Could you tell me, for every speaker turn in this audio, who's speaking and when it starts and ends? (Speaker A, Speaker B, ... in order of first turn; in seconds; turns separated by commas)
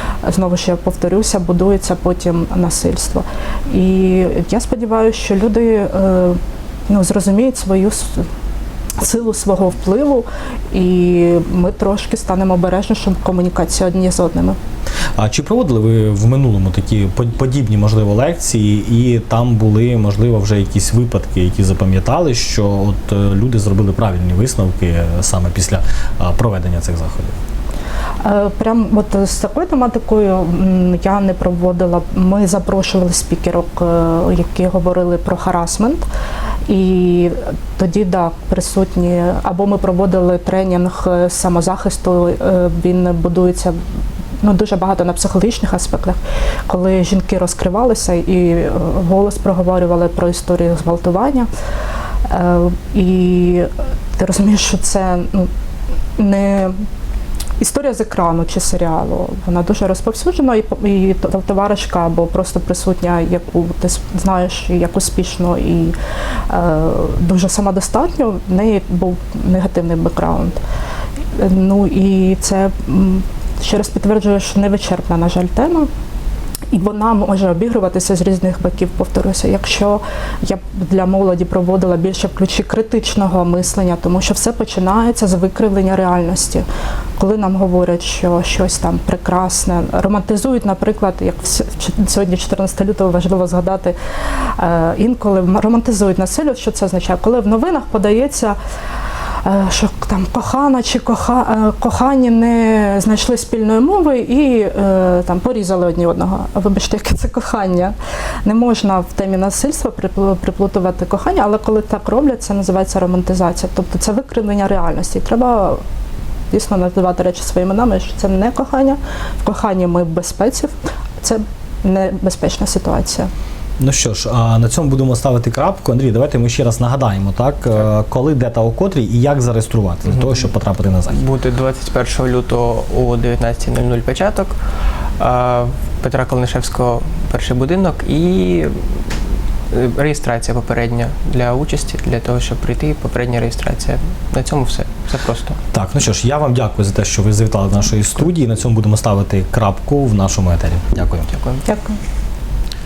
Speaker A: 0.2-8.2, Speaker A: 9.0-14.6, Speaker B: 15.2-27.4, Speaker A: 28.2-36.0, Speaker A: 36.7-43.8, Speaker A: 44.4-51.5, Speaker A: 52.3-55.5, Speaker A: 56.2-56.8, Speaker A: 57.6-66.0, Speaker A: 66.5-70.6, Speaker A: 71.3-75.9, Speaker A: 76.7-86.6, Speaker A: 87.2-98.6, Speaker A: 99.4-115.8, Speaker A: 116.5-123.3, Speaker B: 123.8-131.2, Speaker C: 131.1-134.5, Speaker C: 135.2-139.2, Speaker C: 139.7-145.6, Speaker B: 145.7-151.3, Speaker C: 151.3-151.6, Speaker A: 151.7-152.0